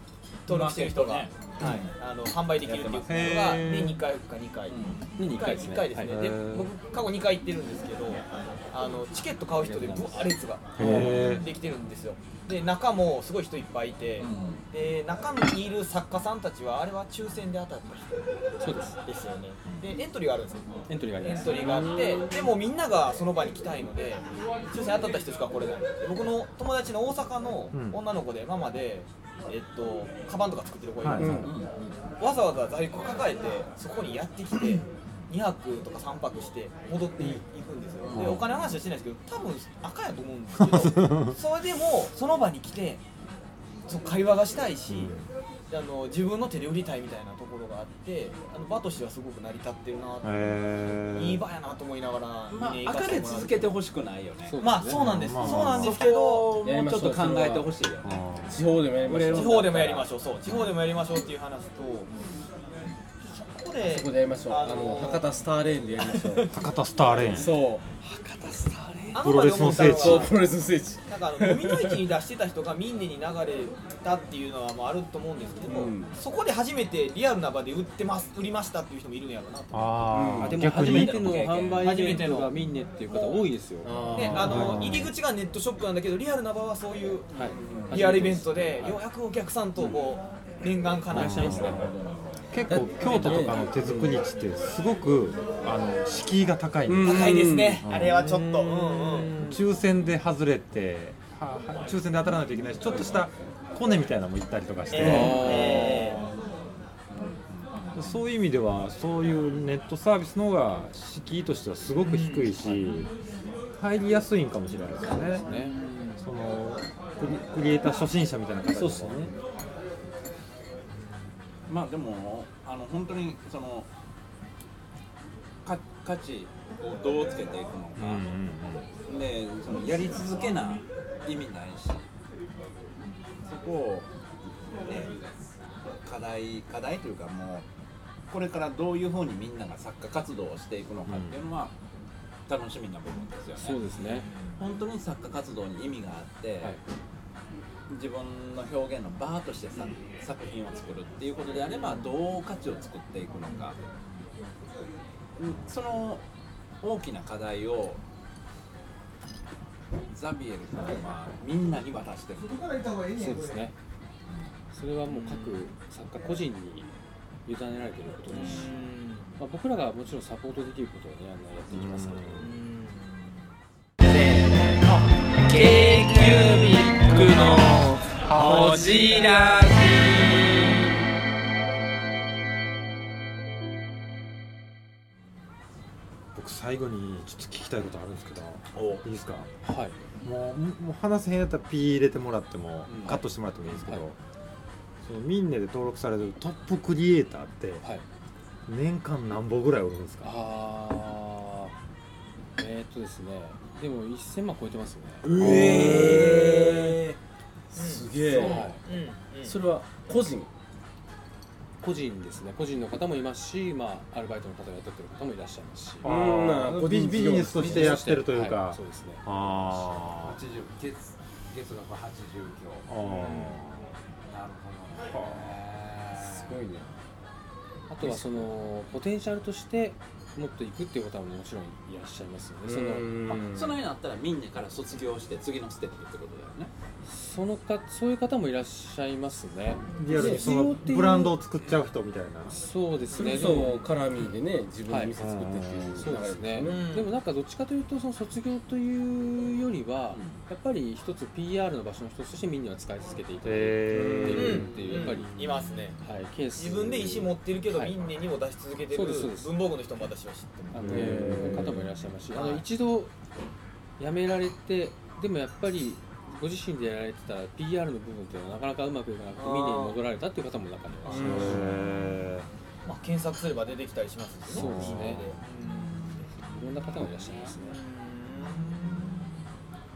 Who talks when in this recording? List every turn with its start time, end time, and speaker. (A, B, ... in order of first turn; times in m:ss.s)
0:00.4-0:18.3 A
0:00.5-0:01.9 B
0:02.6-0:03.3 B
0:03.1-0:04.0 C
0:04.7-0:05.0 B
0:05.2-0:06.1 D
0:06.0-0:06.7 C
0:09.6-0:11.1 D
0:10.8-0:11.5 C
0:10.8-0:11.2 B
0:14.2-0:14.6 B
0:18.6-0:19.0 D
0:19.0-0:31.5 A
0:20.9-0:21.9 D
0:21.6-0:22.3 E
0:27.7-0:28.0 C
0:31.0-0:31.4 C
0:31.2-0:31.5 E
0:31.2-0:32.0 B
0:32.2-0:43.0 A
0:38.0-0:38.5 B
0:38.1-0:38.4 C
0:40.6-0:41.3 C
0:43.9-0:45.1 A
0:44.9-0:45.3 C
0:45.7-0:53.7 A
0:50.2-0:51.4 C
0:52.5-0:54.6 B
0:54.4-0:55.1 D
0:54.6-0:56.5 A
0:54.9-0:56.0 C
0:55.4-0:58.3 B
0:56.6-0:57.7 E
0:58.0-0:58.6 C
0:58.5-0:59.7 E
0:59.0-1:00.1 B
0:59.3-1:02.1 A
1:03.2-1:05.4 A
1:03.8-1:06.6 E
1:06.0-1:06.5 A
1:06.5-1:07.5 C
1:07.3-1:07.9 E
1:08.0-1:09.2 D
1:09.1-1:10.4 A
1:09.2-1:10.3 C
1:09.7-1:12.0 E
1:11.1-1:20.0 A
1:15.6-1:16.2 E
1:19.7-1:21.4 C
1:20.1-1:20.6 E
1:20.4-1:24.3 D
1:20.5-1:22.2 B
1:21.8-1:22.5 A
1:23.1-1:23.4 A
1:23.8-1:24.8 E
1:24.1-1:27.3 A
1:24.3-1:25.1 C
1:27.3-1:29.0 D
1:27.5-1:28.2 B
1:27.9-1:31.8 A
1:31.1-1:31.8 C
1:31.1-1:31.9 D
1:31.4-1:32.6 B
1:32.5-1:38.8 C
1:32.7-1:34.2 E
1:36.9-1:37.9 E
1:37.0-1:39.4 A
1:38.9-1:39.3 E
1:39.4-1:46.2 C
1:44.9-1:46.2 A
1:45.0-1:46.0 D
1:47.1-1:48.2 B
1:47.9-1:53.1 C
1:52.0-1:52.5 A
1:53.8-1:55.4 C
1:55.3-1:55.7 D
1:55.9-1:56.2 A
1:56.2-1:59.3 C
2:01.0-2:01.6 A
2:01.7-2:03.9 B
2:05.6-2:08.4 B
2:08.0-2:08.9 C
2:09.0-2:12.1 B
2:13.4-2:14.1 B
2:14.7-2:15.5 B
2:16.0-2:17.7 B
2:18.3-2:21.8 B
2:21.1-2:21.4 C
2:22.5-2:23.9 B
2:23.6-2:24.3 D
2:24.2-2:24.6 A
2:24.6-2:26.8 B
2:27.9-2:33.8 B
2:31.7-2:32.0 A
2:35.4-2:36.2 B
2:36.8-2:38.0 B
2:40.1-2:42.6 B
2:43.1-2:43.7 D
2:44.7-2:46.9 D
2:45.1-2:45.7 A
2:47.4-2:48.7 D
2:48.3-2:49.3 A
2:49.4-2:52.5 D
2:51.7-2:52.5 C
2:52.4-2:53.3 A
2:54.0-3:00.8 F
3:06.3-3:09.5 C
3:08.7-3:09.0 B
3:09.6-3:10.0 D
3:10.2-3:14.2 C
3:12.9-3:13.2 B
3:13.0-3:13.2 D
3:13.7-3:14.1 D
3:15.0-3:17.8 C
3:18.7-3:20.3 C
3:20.2-3:21.8 D
3:22.6-3:25.3 D
3:25.2-3:27.2 B
3:25.3-3:27.0 E
3:25.4-3:26.2 C
3:27.7-3:28.7 E
3:27.7-3:29.6 A
3:28.3-3:28.7 B
3:28.3-3:28.8 D
3:29.4-3:30.5 E
3:31.8-3:36.1 D
3:36.0-3:40.4 C
3:36.0-3:38.0 E
3:37.6-3:39.3 D
3:40.2-3:43.3 B
3:42.9-3:43.9 C
3:44.2-3:46.6 B
3:45.1-3:45.5 C
3:46.2-3:46.9 E
3:47.9-3:53.1 D
3:48.0-3:48.5 B
3:52.6-3:53.8 E
3:53.3-3:56.7 B
3:57.0-4:01.4 D
4:00.0-4:02.6 C
4:00.1-4:00.4 E
4:02.5-4:03.8 D
4:03.1-4:06.9 E
4:04.9-4:05.1 D
4:05.2-4:06.1 C
4:06.0-4:15.3 D
4:06.6-4:07.1 A
4:10.1-4:10.4 B
4:13.4-4:14.7 C
4:13.9-4:14.7 E
4:14.3-4:16.0 A
4:16.0-4:18.1 D
4:16.6-4:21.0 A
4:18.9-4:19.5 D
4:20.7-4:23.1 D
4:20.8-4:21.9 C
4:20.9-4:21.7 E
4:22.3-4:22.6 A
4:24.0-4:31.6 D
4:29.4-4:30.0 A
4:31.0-4:31.5 A
4:31.1-4:31.6 E
4:31.1-4:32.5 C
4:32.8-4:36.3 A
4:34.5-4:35.3 D
4:34.5-4:35.2 C
4:35.8-4:36.2 B
4:36.3-4:37.8 D
4:37.4-4:39.3 A
4:38.4-4:39.5 B